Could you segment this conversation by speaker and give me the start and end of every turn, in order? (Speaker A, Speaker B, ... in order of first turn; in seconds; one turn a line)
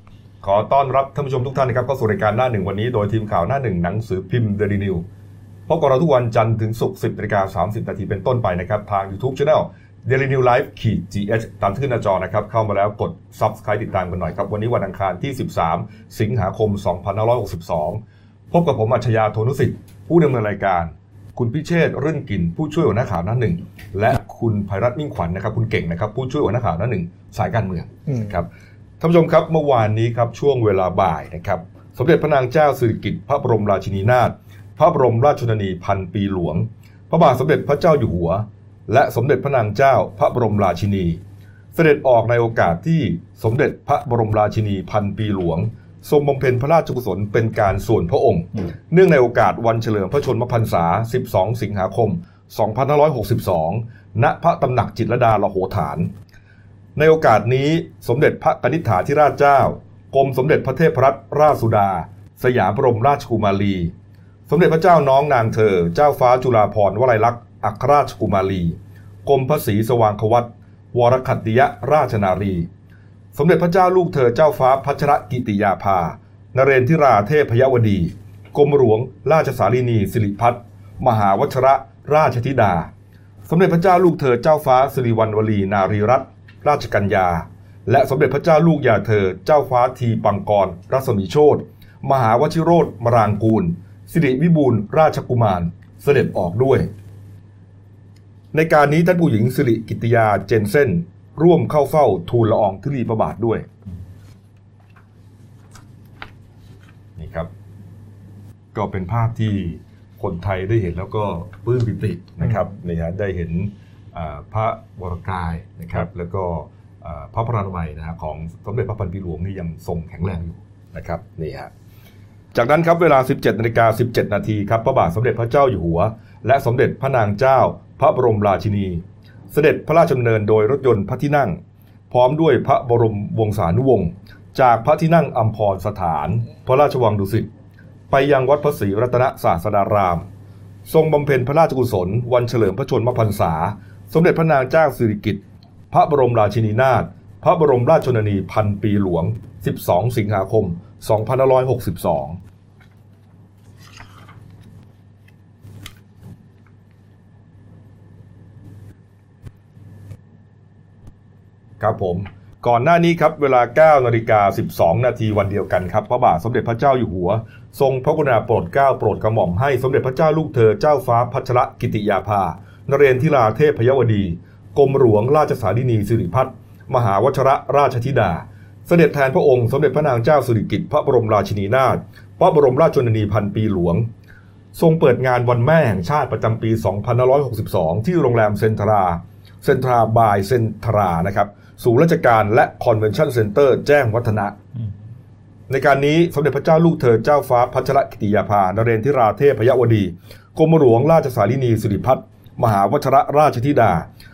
Speaker A: 0.4-5.0
Speaker A: 5.7-18.0
Speaker A: 18.5-28.5
Speaker A: 29.0-41.2
Speaker A: 41.7-56.1
Speaker A: 57.0-63.9
Speaker A: 64.5-72.7
Speaker A: 73.3-82.9
Speaker A: 83.5-96.9
Speaker A: 98.5-103.7
Speaker A: 107.2-107.5
Speaker A: 108.7-121.7
Speaker A: 122.5-137.5
Speaker A: 138.1-140.3
Speaker A: 140.8-152.4
Speaker A: 161.8-184.1
Speaker A: 184.7-194.6
Speaker A: 195.7-204.1